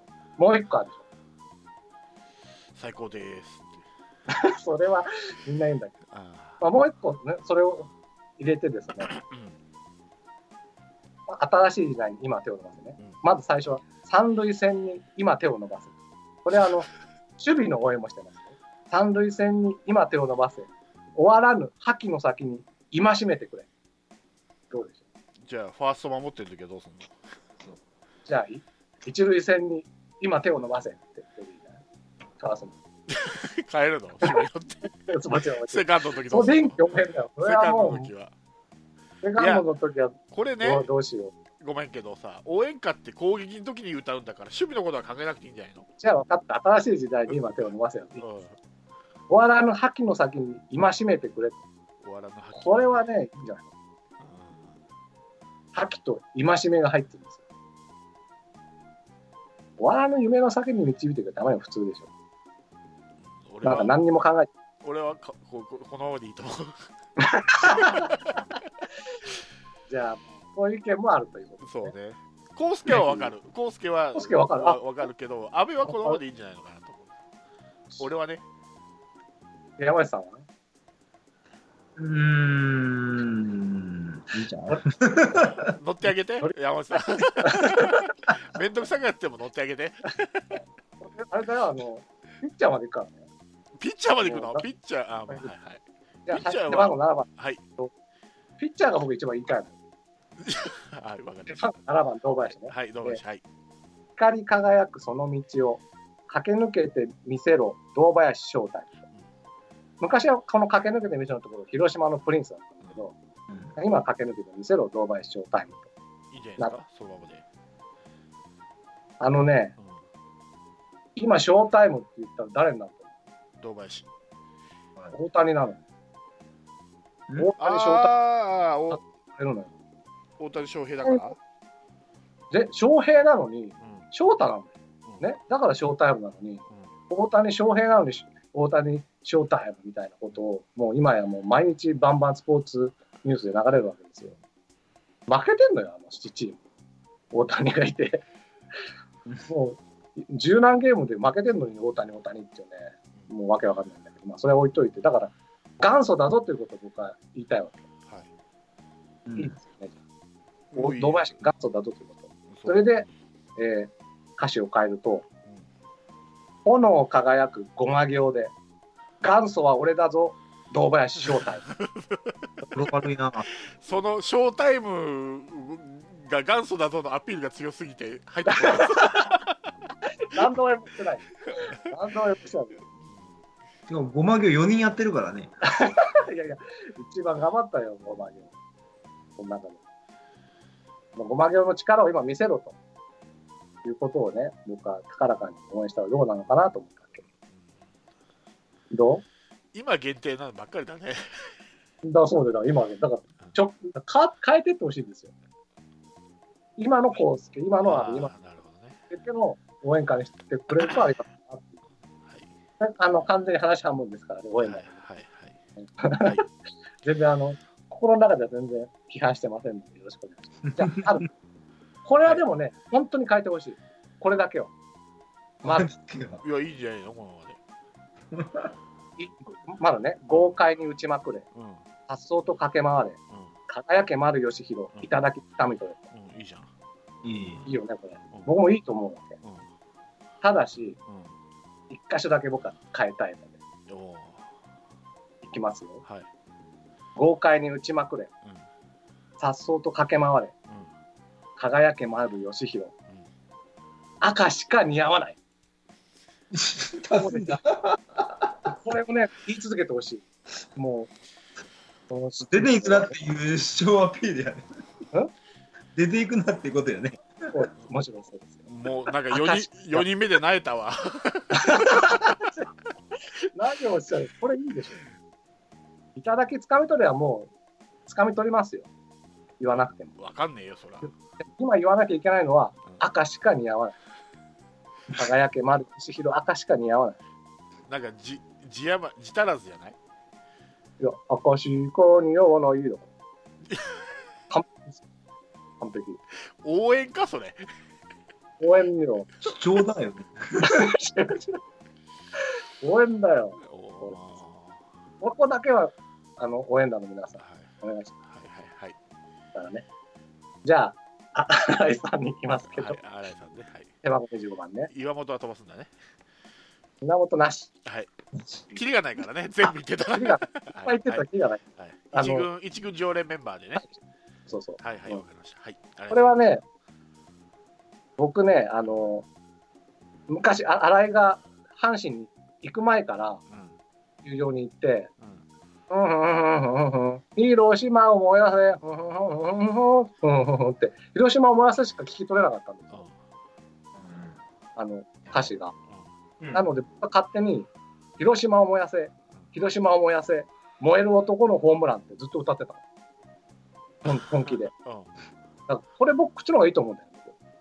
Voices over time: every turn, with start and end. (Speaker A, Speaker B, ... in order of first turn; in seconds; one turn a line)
Speaker A: 0.4-1.0
Speaker B: 2.7-3.8
Speaker A: 4.3-5.9
Speaker B: 6.1-6.6
Speaker A: 6.6-9.1
Speaker B: 9.1-9.5
Speaker A: 11.3-23.7
Speaker A: 24.7-25.0
Speaker B: 25.5-27.1
Speaker A: 28.2-31.8
Speaker A: 32.4-32.8
Speaker B: 33.1-34.9
Speaker A: 35.1-38.1
Speaker B: 35.7-38.3
Speaker A: 39.2-41.4
Speaker B: 39.4-39.6
Speaker B: 40.3-40.9
Speaker B: 41.6-45.9
Speaker A: 46.0-48.2
Speaker B: 48.2-48.5
Speaker A: 49.3-51.6
Speaker B: 52.0-53.0
Speaker A: 52.5-53.7
Speaker B: 54.2-54.7
Speaker A: 55.7-57.4
Speaker A: 59.8-62.1
Speaker B: 63.3-64.0
Speaker A: 63.6-64.5
Speaker B: 64.8-66.9
Speaker A: 67.2-68.1
Speaker B: 67.6-68.3
Speaker A: 69.9-71.9
Speaker B: 71.6-77.1
Speaker A: 72.9-73.3
Speaker A: 74.1-74.8
Speaker A: 75.8-76.2
Speaker B: 78.0-78.4
Speaker A: 79.8-80.4
Speaker C: 82.0-85.7
Speaker B: 85.7-90.6
Speaker A: 87.4-88.1
Speaker A: 91.0-93.3
Speaker B: 93.8-97.6
Speaker A: 94.2-94.7
Speaker A: 96.3-97.9
Speaker A: 98.6-99.7
Speaker B: 100.4-101.7
Speaker A: 101.5-103.2
Speaker B: 102.7-103.4
Speaker A: 104.2-109.0
Speaker A: 110.0-113.1
Speaker A: 113.8-115.9
Speaker B: 116.3-117.4
Speaker A: 119.2-119.7
Speaker A: 121.2-123.1
Speaker B: 123.6-124.1
Speaker A: 125.1-125.8
Speaker A: 127.4-128.1
Speaker B: 127.6-129.0
Speaker A: 128.9-129.7
Speaker B: 130.4-131.3
Speaker A: 131.0-131.3
Speaker A: 132.5-144.3
Speaker A: 145.3-146.6
Speaker A: 147.3-148.2
Speaker A: 149.4-157.8
Speaker C: 159.2-159.5
Speaker A: 159.4-159.9
Speaker B: 160.7-161.4
Speaker A: 160.8-163.1
Speaker B: 162.5-162.9
Speaker A: 163.6-165.2
Speaker A: 166.6-168.5
Speaker A: 169.2-171.7
Speaker B: 171.3-172.3
Speaker C: 172.7-173.5
Speaker B: 173.8-179.6
Speaker A: 178.5-179.3
Speaker A: 180.2-182.8
Speaker C: 183.9-185.5
Speaker A: 185.6-188.5
Speaker A: 189.4-189.8
Speaker A: 191.2-192.7
Speaker A: 193.8-197.2
Speaker A: 198.9-199.2
Speaker B: 199.7-201.5
Speaker A: 202.0-205.3
Speaker A: 206.8-208.3
Speaker B: 207.8-209.0
Speaker A: 209.1-211.8
Speaker A: 212.8-215.0
Speaker B: 214.6-215.5
Speaker A: 215.8-216.4
Speaker B: 216.2-216.4
Speaker A: 217.0-221.3
Speaker A: 222.0-224.7
Speaker A: 225.6-225.9
Speaker C: 225.6-226.4
Speaker B: 226.4-227.6
Speaker C: 228.3-228.7
Speaker A: 229.2-231.4
Speaker B: 231.5-231.8
Speaker A: 232.1-236.0
Speaker B: 236.1-236.7
Speaker C: 237.2-237.7
Speaker A: 237.7-239.4
Speaker A: 240.4-241.0
Speaker B: 241.1-241.3
Speaker A: 241.9-243.5
Speaker B: 243.9-244.5
Speaker A: 245.4-246.0
Speaker A: 247.2-248.3
Speaker A: 249.4-250.5
Speaker A: 251.6-252.9
Speaker A: 254.2-255.4
Speaker C: 256.5-258.5
Speaker A: 257.1-257.6
Speaker A: 258.8-260.2
Speaker A: 260.8-261.1
Speaker A: 262.1-263.2
Speaker C: 262.4-264.6
Speaker C: 265.9-267.5
Speaker A: 267.5-268.6
Speaker B: 268.7-272.3
Speaker A: 269.3-270.0
Speaker A: 271.5-272.7
Speaker A: 273.5-275.0
Speaker A: 276.1-277.5
Speaker A: 278.1-278.9
Speaker A: 279.6-280.1
Speaker B: 280.1-281.1
Speaker A: 281.4-283.9
Speaker A: 285.1-287.2
Speaker B: 287.9-289.9
Speaker A: 291.0-293.1
Speaker B: 293.7-294.0
Speaker A: 294.5-295.0
Speaker A: 295.8-296.2
Speaker B: 296.6-297.6
Speaker A: 298.6-299.3
Speaker C: 299.4-300.9
Speaker A: 300.6-301.6
Speaker A: 302.8-304.1
Speaker B: 303.6-304.8
Speaker A: 305.2-308.1
Speaker B: 307.4-307.7
Speaker B: 308.2-308.9
Speaker A: 309.5-309.8
Speaker A: 310.6-313.0
Speaker B: 312.7-313.9
Speaker A: 314.0-314.9
Speaker B: 314.9-315.9
Speaker A: 317.0-317.7
Speaker B: 318.7-321.2
Speaker A: 320.1-321.6
Speaker B: 321.8-323.9
Speaker A: 322.1-322.5
Speaker A: 324.5-325.2
Speaker B: 324.8-326.3
Speaker A: 326.1-326.6
Speaker A: 328.2-329.2
Speaker A: 330.3-333.4
Speaker B: 333.5-333.7
Speaker A: 334.2-335.1
Speaker A: 335.9-343.1
Speaker C: 344.0-344.4
Speaker A: 344.8-345.7
Speaker A: 346.5-352.8
Speaker A: 354.0-354.7
Speaker B: 354.5-355.1
Speaker A: 355.7-357.3